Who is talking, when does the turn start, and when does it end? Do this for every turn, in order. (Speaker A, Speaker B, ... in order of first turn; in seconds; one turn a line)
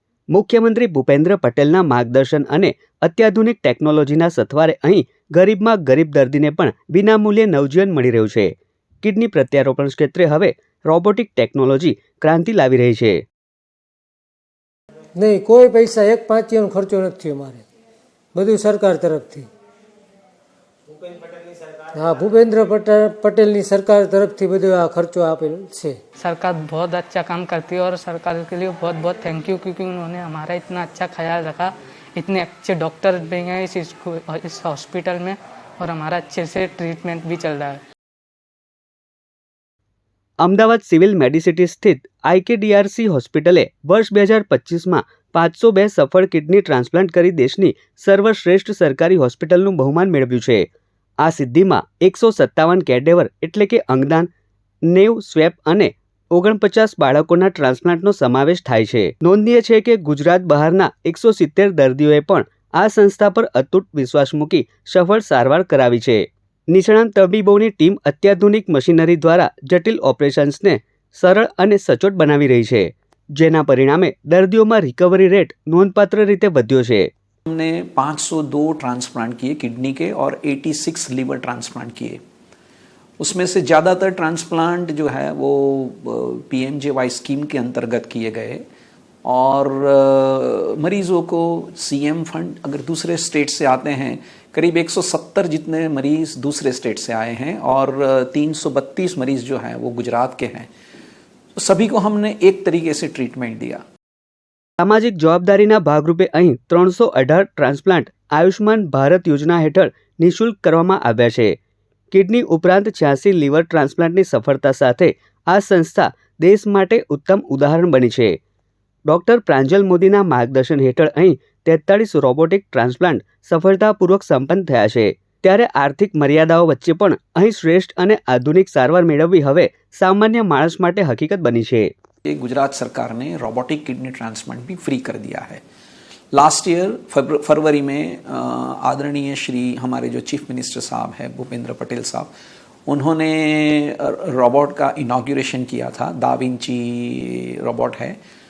Speaker A: 0.3-13.2
Speaker B: 15.2-17.6
Speaker B: 18.3-19.5
Speaker B: 21.9-26.0
Speaker C: 26.2-37.8
Speaker A: 40.4-50.7
Speaker A: 51.2-54.3
Speaker A: 54.9-77.1
Speaker D: 77.5-82.2
Speaker D: 83.2-88.6
Speaker D: 89.2-100.7
Speaker D: 101.6-103.8
Speaker A: 104.8-111.6
Speaker A: 112.1-118.4
Speaker A: 119.1-131.9
Speaker D: 132.2-135.6
Speaker D: 136.3-142.3
Speaker D: 142.9-148.2